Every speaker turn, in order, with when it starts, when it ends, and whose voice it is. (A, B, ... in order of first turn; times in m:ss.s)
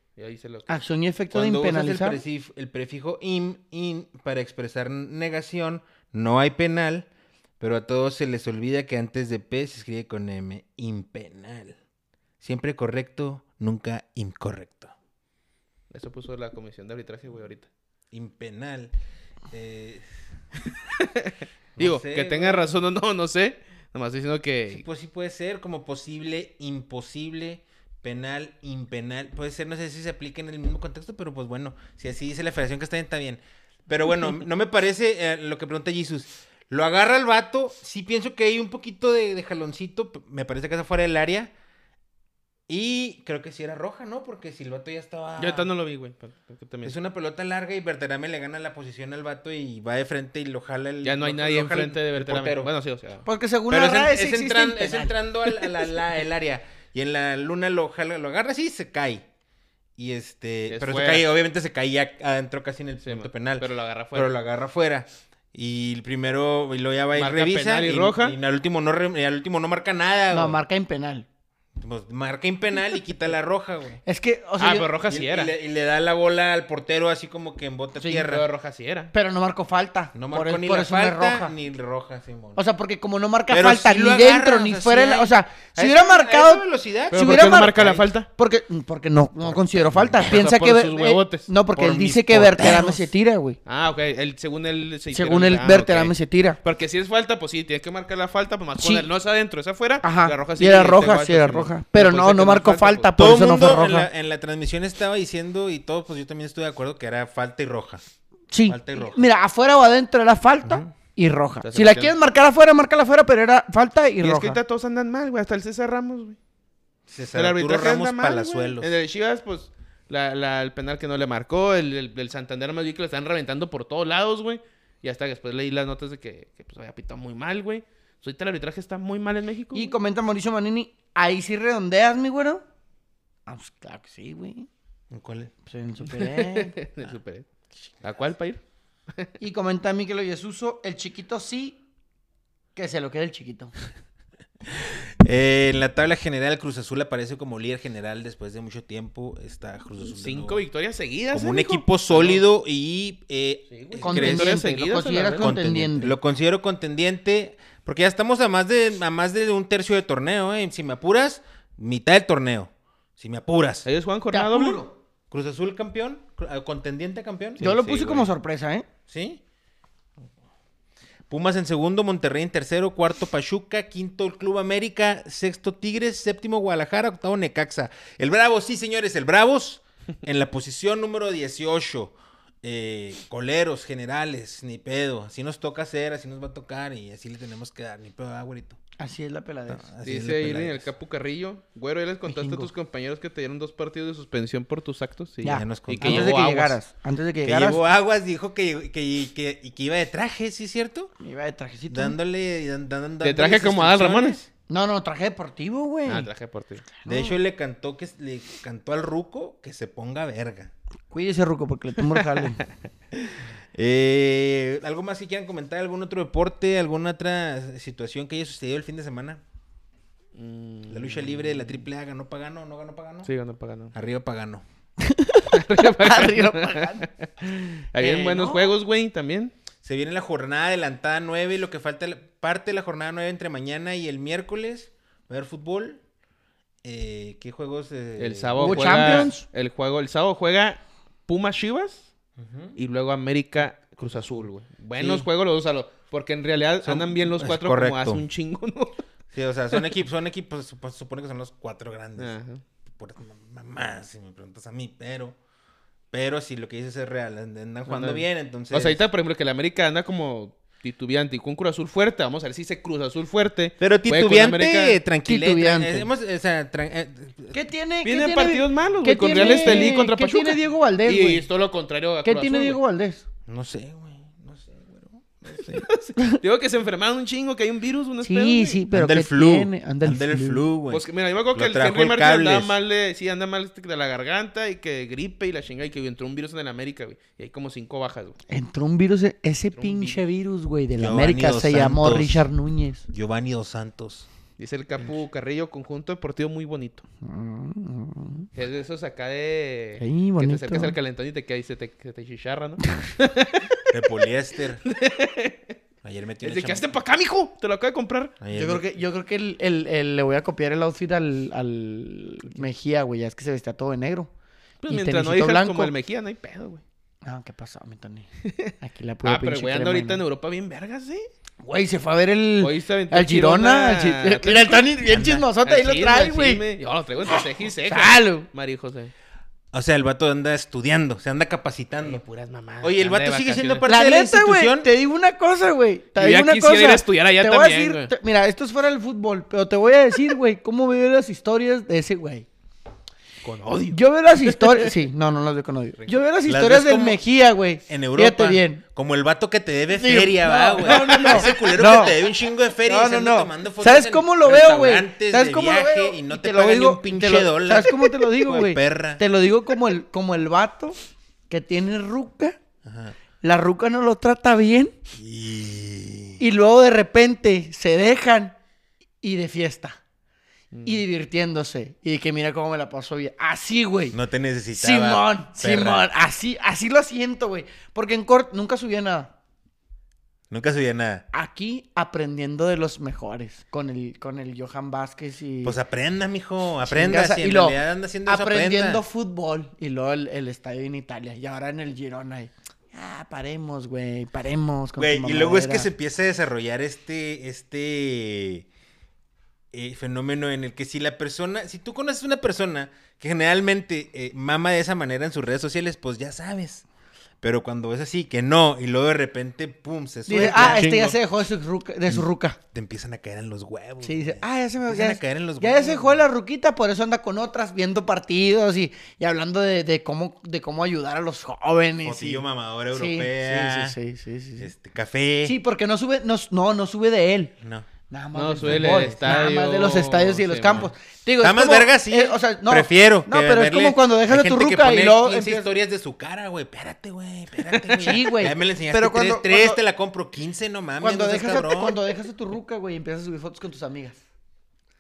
0:00.2-0:00.8 A
0:00.7-0:02.2 B
0:01.3-0:07.1 C
0:07.6-0:11.8 C
0:12.4-0:14.9 C
0:15.9-0:17.7 A
0:18.1-0:18.9 C
0:19.5-0:20.1 C
0:20.9-0:24.8 A
0:21.8-0:22.7 C
0:24.7-0:41.5 C
0:42.7-0:45.7 C
0:45.4-0:47.0 A
0:46.8-0:52.7 C
0:51.0-0:53.2 A
0:53.3-0:55.5 B
0:53.7-0:59.2 C
1:00.0-1:10.6 C
1:00.7-1:01.3 A
1:03.0-1:04.3 A
1:07.2-1:08.4 A
1:10.3-1:11.2 B
1:11.8-1:14.0 C
1:14.1-1:14.9 B
1:14.6-1:15.5 A
1:15.1-1:18.5 C
1:18.0-1:18.2 B
1:18.2-1:19.1 A
1:19.1-1:21.5 B
1:20.2-1:22.6 C
1:22.6-1:27.8 B
1:23.5-1:28.1 C
1:27.1-1:28.3 A
1:28.4-1:33.6 B
1:29.4-1:30.3 C
1:30.2-1:31.5 A
1:31.8-1:33.1 C
1:33.7-1:43.1 A
1:35.1-1:36.6 B
1:38.8-1:39.1 B
1:40.0-1:44.1 B
1:43.2-1:48.0 C
1:48.5-1:54.6 B
1:48.7-1:49.2 C
1:50.6-1:50.9 C
1:51.6-1:52.1 A
1:54.2-1:56.4 A
1:57.1-1:58.9 C
1:57.4-2:09.9 A
2:09.7-2:12.6 B
2:13.5-2:14.7 B
2:15.1-2:15.5 C
2:15.7-2:16.8 B
2:16.1-2:17.5 A
2:18.0-2:18.6 A
2:19.4-2:21.8 B
2:22.8-2:23.7 B
2:24.7-2:30.6 C
2:30.0-2:32.4 A
2:31.3-2:34.6 C
2:33.7-2:35.5 A
2:34.0-2:36.2 B
2:35.4-2:43.9 C
2:43.8-2:44.8 A
2:44.3-2:44.9 B
2:45.3-2:48.2 C
2:47.6-2:48.9 B
2:49.1-2:49.4 C
2:51.3-3:08.8 C
3:09.0-3:09.9 B
3:09.7-3:10.9 C
3:10.0-3:16.8 A
3:12.3-3:12.7 B
3:15.4-3:17.8 B
3:15.5-3:16.5 C
3:17.4-3:21.1 C
3:21.2-3:22.2 B
3:21.9-3:24.5 C
3:23.2-3:24.4 A
3:24.7-3:26.3 B
3:26.1-3:26.9 A
3:27.0-3:27.4 B
3:27.0-3:30.7 C
3:31.1-3:32.6 B
3:32.2-3:32.5 A
3:33.7-3:39.4 C
3:40.4-3:41.8 A
3:40.9-3:43.3 C
3:43.2-3:43.9 A
3:43.9-3:44.6 C
3:45.0-3:47.1 B
3:45.5-3:49.5 A
3:48.0-3:48.5 C
3:48.2-3:48.7 B
3:49.8-3:56.0 C
3:56.8-3:59.3 C
3:58.2-4:02.1 A
3:58.6-3:59.4 B
4:02.4-4:02.8 C
4:02.8-4:09.0 A
4:05.0-4:05.3 C
4:06.8-4:08.2 C
4:09.3-4:12.4 C
4:12.2-4:12.6 A
4:12.9-4:15.4 C
4:16.1-4:19.0 C
4:17.9-4:25.0 A
4:23.8-4:27.6 C
4:25.2-4:26.1 B
4:27.5-4:31.4 B
4:28.0-4:32.8 A
4:29.3-4:30.0 C
4:32.2-4:33.2 B
4:33.5-4:35.9 C
4:35.7-4:38.8 A
4:38.2-4:40.7 B
4:38.9-4:42.7 C
4:40.9-4:48.4 A
4:48.5-4:53.0 B
4:49.7-4:50.2 A
4:51.0-4:52.5 C
4:53.1-4:54.3 C
4:54.6-4:57.0 A
4:57.2-4:58.5 B
4:58.6-5:03.8 A
5:00.0-5:01.0 B
5:03.9-5:04.8 C
5:04.8-5:05.7 A
5:06.0-5:06.9 C
5:06.4-5:08.3 A
5:08.4-5:08.8 C
5:08.5-5:14.3 B
5:14.8-5:16.8 A
5:14.9-5:15.9 B
5:17.2-5:18.3 B
5:18.4-5:18.7 A
5:18.8-5:20.2 B
5:19.2-5:21.3 A
5:21.6-5:26.6 B
5:22.6-5:24.9 A
5:25.1-5:25.4 C
5:25.6-5:29.1 A
5:27.9-5:28.5 B
5:29.7-5:32.2 C
5:32.0-5:33.9 A
5:32.8-5:34.9 C
5:33.9-5:42.5 B
5:36.2-5:38.1 A
5:43.4-5:44.9 A
5:43.9-5:48.8 B
5:46.1-5:47.2 C
5:47.9-5:59.2 C
5:49.9-5:52.2 B
5:50.8-5:51.7 A
5:52.8-6:01.0 B
6:01.5-6:02.6 B
6:02.8-6:03.2 C
6:03.4-6:05.0 B
6:05.2-6:06.4 C
6:06.4-6:08.6 B
6:09.2-6:10.0 B
6:10.7-6:11.0 A
6:10.8-6:14.2 B
6:14.1-6:16.1 C
6:14.8-6:19.3 B
6:20.5-6:21.2 C
6:21.3-6:25.8 B
6:25.6-6:29.0 C
6:26.8-6:35.9 B
6:35.0-6:38.7 C
6:39.7-6:46.9 C
6:47.4-6:51.2 C
6:50.3-6:52.6 B
6:50.3-6:51.1 A
6:52.7-6:56.2 C
6:54.0-7:04.7 B
7:02.0-7:04.0 C
7:04.6-7:05.6 C
7:05.4-7:07.5 B
7:07.6-7:07.9 C
7:08.1-7:15.7 B
7:08.4-7:10.9 A
7:08.6-7:09.4 C
7:11.4-7:22.0 C
7:17.7-7:18.2 A
7:18.0-7:19.8 B
7:21.0-7:24.2 B